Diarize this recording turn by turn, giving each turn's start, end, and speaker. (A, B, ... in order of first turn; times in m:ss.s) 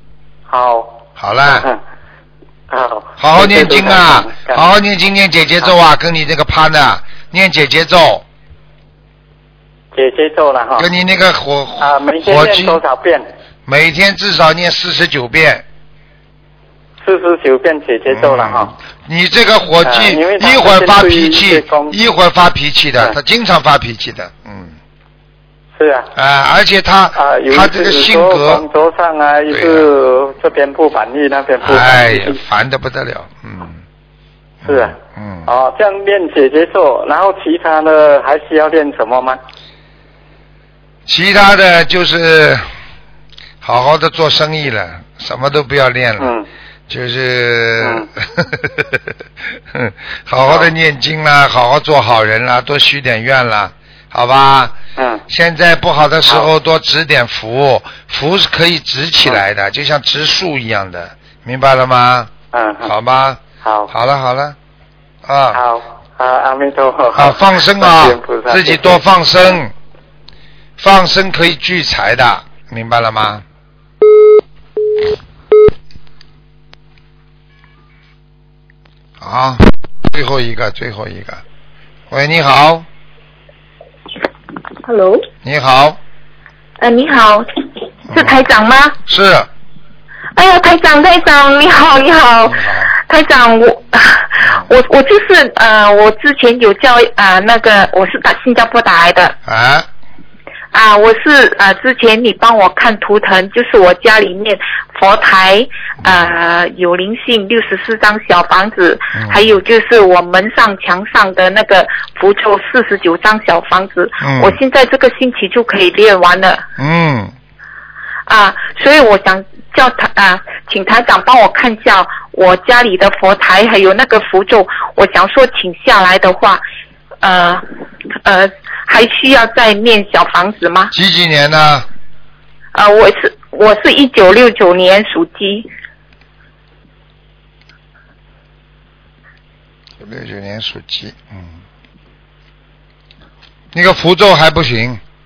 0:00.5-0:01.8 A
0:01.2-0:01.7 B
0:02.7-0:04.7 A
0:03.2-0:08.2 B
0:09.9-0:10.9 A
0:10.8-0:12.8 B
0:11.8-0:13.3 A
0:13.6-0:15.6 B
0:17.0-0:18.7 A
0:18.1-0:24.8 B
0:19.8-0:22.0 A
0:25.8-0:26.1 A
0:26.1-0:28.6 B
0:27.1-0:32.4 A
0:29.5-0:29.9 B
0:31.6-0:33.8 B
0:34.6-0:39.4 A
0:34.6-0:35.5 B
0:41.1-0:42.7 B
0:43.6-0:46.3 B
0:46.2-0:46.5 A
0:46.9-1:02.3 B
0:47.8-0:48.1 A
0:50.4-0:50.7 A
0:55.0-0:55.2 A
0:56.2-0:56.5 A
1:02.5-1:02.9 A
1:02.8-1:04.6 B
1:03.6-1:03.9 A
1:05.2-1:05.6 B
1:05.5-1:09.0 A
1:07.1-1:09.7 B
1:10.8-1:13.4 B
1:19.2-1:21.4 B
1:22.1-1:22.9 B
1:24.8-1:25.2 C
1:25.4-1:26.0 B
1:26.8-1:27.5 C
1:28.1-1:28.4 B
1:28.1-1:29.0 C
1:29.0-1:29.5 B
1:30.4-1:39.4 C
1:32.5-1:32.9 B
1:34.4-1:34.7 B
1:39.4-1:39.9 B
1:40.7-1:56.6 C
1:46.0-1:46.3 B
1:49.1-1:49.6 B
1:54.2-1:54.6 B
1:56.8-1:57.3 B
1:58.3-2:06.6 C
2:07.2-2:07.6 C
2:08.2-2:10.9 C
2:10.9-2:11.8 B
2:12.7-2:15.7 C
2:20.0-2:21.5 B
2:23.7-2:25.0 B